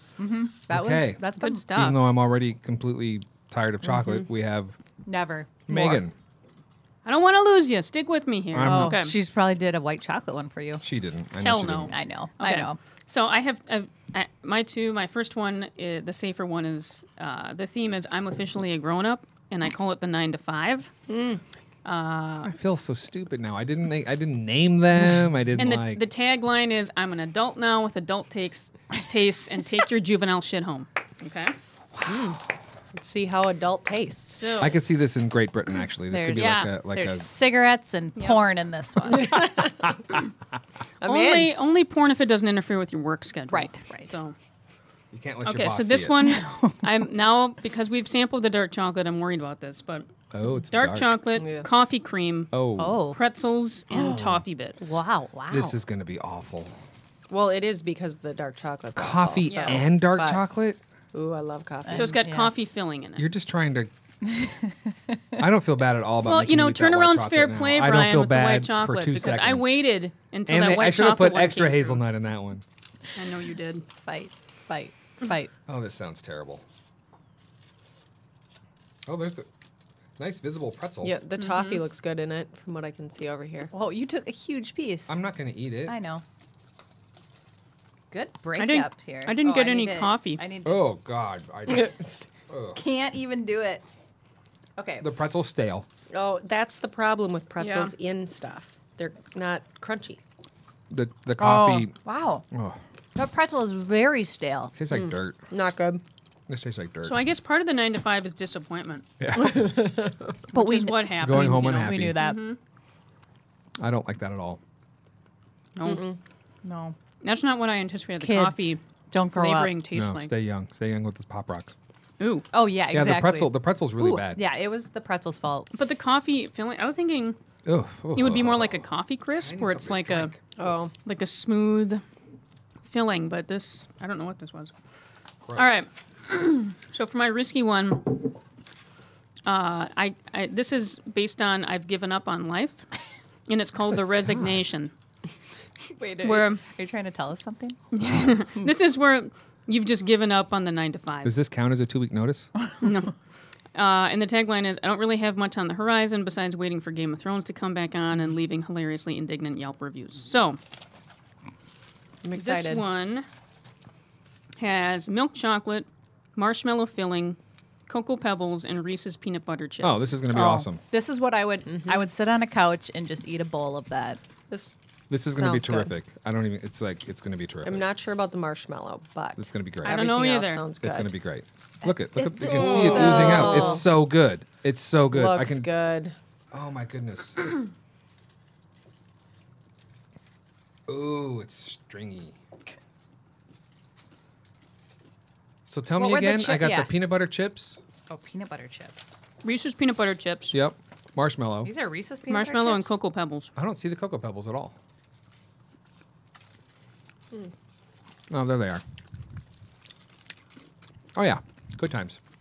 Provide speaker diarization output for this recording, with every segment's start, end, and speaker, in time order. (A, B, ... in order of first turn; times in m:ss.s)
0:00.2-0:01.7 A
0:00.7-0:04.8 B
0:01.4-0:02.1 C
0:05.1-0:06.0 A
0:05.7-0:06.1 B
0:07.0-0:09.2 C
0:08.5-0:09.0 B
0:08.6-0:10.8 A
0:10.8-0:11.9 B
0:11.4-0:20.9 C
0:11.9-0:12.8 A
0:21.1-0:21.4 D
0:21.8-0:22.5 C
0:22.4-0:26.0 B
0:25.6-0:31.5 C
0:32.0-0:32.4 D
0:32.9-0:34.8 D
0:34.4-0:34.8 C
0:34.6-0:37.3 B
0:36.1-0:39.7 A
0:36.4-0:36.7 C
0:38.2-0:38.5 C
0:39.1-0:39.9 D
0:41.0-0:41.6 D
0:41.0-0:44.4 C
0:43.5-0:44.1 A
0:45.1-0:46.2 B
0:45.4-0:50.1 C
0:46.2-0:46.9 A
0:50.3-0:51.2 B
0:50.7-0:55.0 C
0:51.4-0:51.7 D
0:52.5-0:53.0 B
0:52.8-0:53.2 A
0:53.9-0:54.4 B
0:54.8-0:55.8 A
0:55.5-0:56.7 B
0:57.3-1:00.4 D
0:59.0-1:00.8 B
0:59.5-0:59.8 C
1:01.1-1:02.2 D
1:01.8-1:02.8 A
1:01.9-1:03.3 C
1:03.2-1:03.9 B
1:04.2-1:05.2 A
1:05.4-1:09.8 B
1:06.2-1:12.0 C
1:10.5-1:12.6 B
1:13.2-1:13.8 C
1:14.0-1:15.5 A
1:15.7-1:16.6 B
1:19.1-1:19.5 B
1:20.2-1:21.2 B
1:21.0-1:23.7 D
1:21.4-1:21.8 C
1:23.7-1:25.2 A
1:25.1-1:26.0 B
1:25.9-1:26.2 A
1:28.1-1:30.9 A
1:28.6-1:30.4 C
1:30.6-1:32.0 B
1:31.7-1:32.2 D
1:32.5-1:32.8 B
1:32.7-1:33.8 A
1:34.8-1:35.1 A
1:35.0-1:35.9 B
1:36.1-1:40.2 D
1:37.6-1:37.9 A
1:40.9-1:42.0 B
1:41.4-1:42.4 A
1:42.5-1:42.8 B
1:43.2-1:44.7 A
1:44.7-1:45.4 B
1:45.5-1:46.0 D
1:46.5-1:47.2 B
1:47.0-1:49.0 C
1:49.2-1:49.8 B
1:49.4-1:50.4 D
1:50.5-1:52.5 A
1:50.5-1:52.6 C
1:51.2-1:52.2 B
1:53.8-1:54.6 B
1:55.8-1:56.0 C
1:55.8-1:56.2 D
1:56.6-1:57.0 A
1:57.2-1:58.8 C
1:58.2-1:59.8 A
1:59.3-2:00.3 C
1:59.9-2:01.7 B
2:02.2-2:02.5 C
2:02.5-2:05.7 A
2:02.9-2:04.4 B
2:05.7-2:07.4 C
2:07.7-2:10.4 B
2:08.2-2:10.3 C
2:10.6-2:10.9 D
2:11.0-2:12.0 C
2:12.9-2:14.7 C
2:15.5-2:15.8 B
2:15.6-2:18.3 C
2:19.4-2:22.9 C
2:23.5-2:24.9 C
2:25.9-2:27.8 A
2:26.2-2:26.6 C
2:27.9-2:31.4 C
2:31.2-2:32.5 B
2:32.8-2:33.1 C
2:33.8-2:40.6 C
2:42.2-2:42.8 D
2:42.3-2:43.3 C
2:44.6-2:50.2 C
2:49.8-2:50.8 B
2:50.3-2:54.2 A
2:54.5-2:55.9 D
2:55.1-2:57.8 B
2:57.6-3:01.1 D
2:59.4-3:00.0 B
2:59.8-3:00.7 C
3:00.8-3:05.7 B
3:02.2-3:03.8 A
3:02.2-3:03.9 D
3:05.1-3:06.2 D
3:06.5-3:07.5 B
3:10.9-3:12.4 B
3:15.7-3:17.8 B
3:16.0-3:16.9 A
3:18.1-3:19.2 A
3:19.4-3:20.6 C
3:20.5-3:21.7 B
3:21.6-3:23.0 A
3:22.3-3:23.5 C
3:23.6-3:24.8 B
3:28.3-3:28.8 B
3:31.2-3:32.2 B